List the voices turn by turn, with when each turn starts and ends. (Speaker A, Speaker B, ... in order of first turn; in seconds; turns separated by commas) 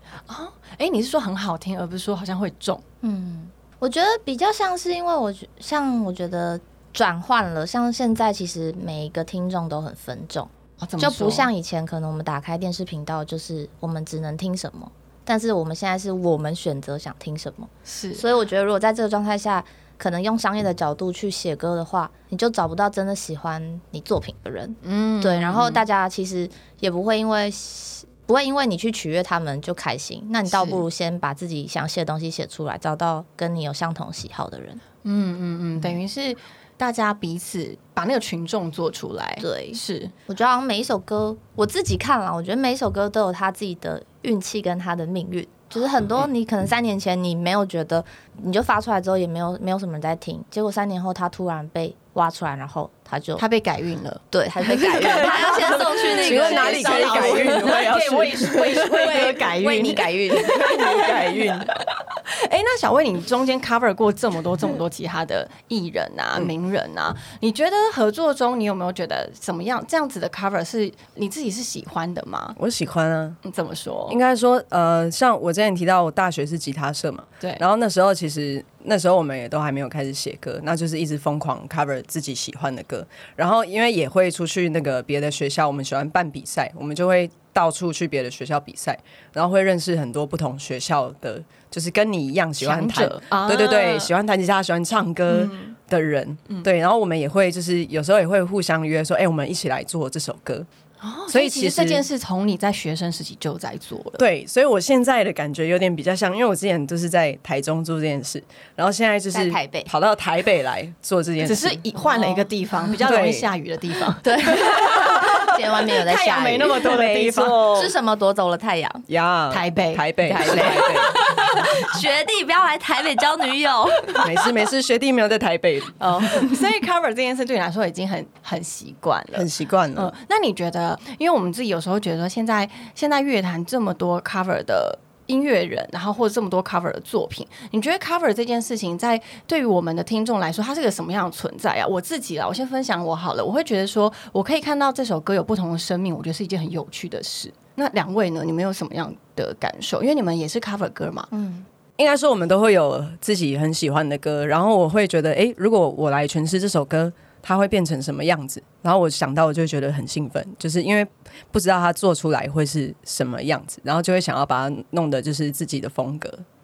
Speaker A: 0.3-2.8, Speaker B: 3.0-34.8, Speaker A: 10.8-11.5, Speaker A: 17.9-18.2, Speaker A: 24.8-25.8, Speaker A: 30.5-30.8, Speaker A: 35.0-40.1, Speaker B: 39.4-53.4, Speaker A: 53.4-72.6, Speaker B: 54.3-57.9, Speaker C: 55.0-59.3, Speaker B: 58.8-61.1, Speaker C: 60.5-61.7, Speaker C: 72.6-73.4, Speaker A: 73.4-74.2, Speaker C: 74.1-100.7, Speaker A: 92.6-94.1, Speaker A: 95.3-95.7, Speaker A: 101.0-104.2, Speaker C: 101.3-102.0, Speaker C: 104.2-111.8, Speaker B: 109.3-109.9, Speaker A: 111.4-117.8, Speaker B: 112.1-113.0, Speaker C: 113.0-113.5, Speaker B: 114.2-116.9, Speaker C: 116.8-117.9, Speaker B: 117.7-119.0, Speaker C: 119.1-121.2, Speaker A: 119.5-121.1, Speaker B: 120.2-124.2, Speaker C: 124.2-126.5, Speaker A: 126.0-151.3, Speaker C: 129.3-130.1, Speaker B: 151.3-151.6, Speaker C: 152.0-166.4